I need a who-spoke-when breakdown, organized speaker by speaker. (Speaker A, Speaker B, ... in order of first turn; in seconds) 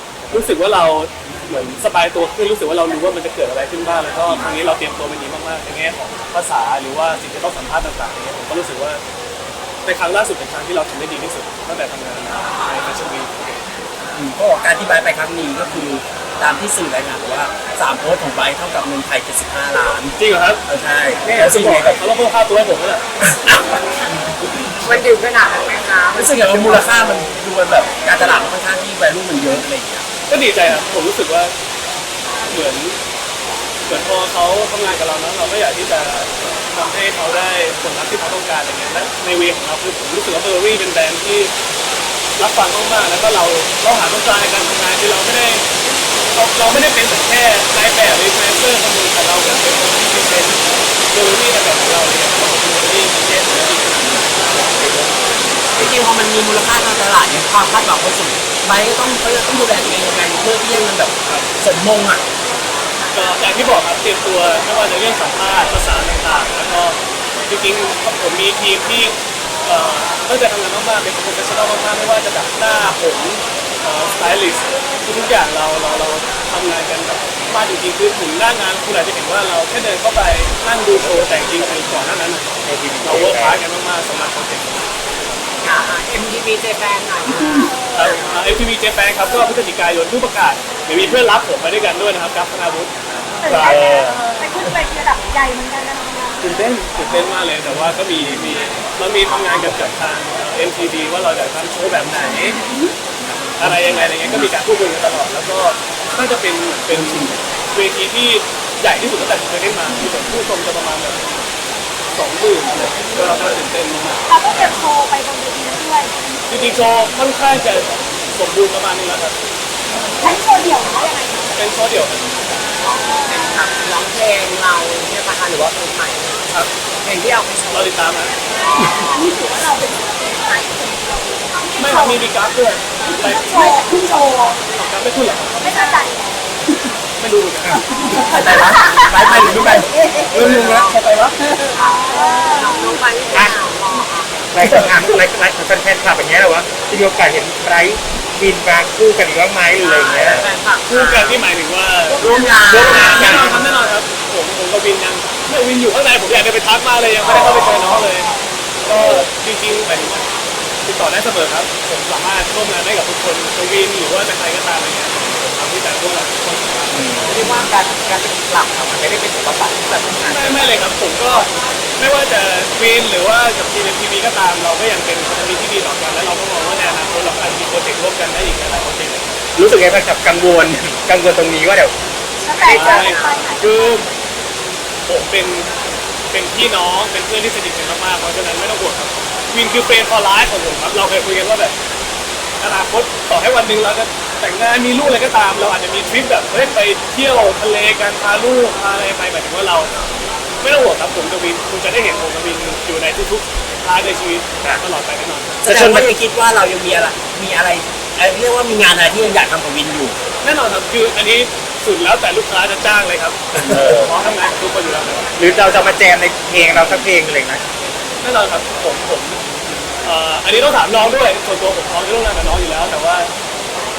Speaker A: 0.3-9.0, 9.8-13.6, 20.1-20.6, 21.2-23.0, 30.3-31.5, 32.5-33.0, 33.9-41.5, 42.4-45.6, 46.3-55.0, 63.1-84.9, 87.9-92.9, 93.4-93.9, 96.4-102.6, 103.6-111.2, 112.1-114.3, 116.5-119.3, 121.5-122.2, 127.7-128.3, 131.8-135.9, 137.2-137.8, 150.8-158.3, 158.8-160.3, 160.8-166.9, 170.2-179.3, 182.7-184.1, 185.1-185.7, 186.3-191.7, 192.6-199.9, 200.6-205.5, 210.4-215.3, 218.2-219.4, 220.0-223.3
Speaker B: 14.1-20.1, 20.6-22.0, 23.2-24.1, 26.1-30.1, 55.7-62.2, 106.9-107.3, 138.1-140.9, 152.3-153.3, 205.6-210.2
Speaker C: 24.8-27.2, 85.6-88.4, 122.8-127.9, 139.2-141.0, 141.7-144.9, 149.8-151.4, 152.1-153.7, 157.2-158.1, 167.2-170.7, 182.5-183.5
Speaker D: 80.9-82.0, 82.6-83.6, 93.6-94.2, 140.4-141.3, 144.5-150.5, 152.6-153.6, 166.9-167.4, 179.6-181.9, 205.6-206.1, 213.7-214.1, 215.4-217.6
Speaker E: 93.4-96.3, 114.3-116.1, 120.2-121.5, 129.0-132.2, 133.2-134.6, 135.6-136.3, 138.0-139.3, 141.8-143.0, 182.4-184.2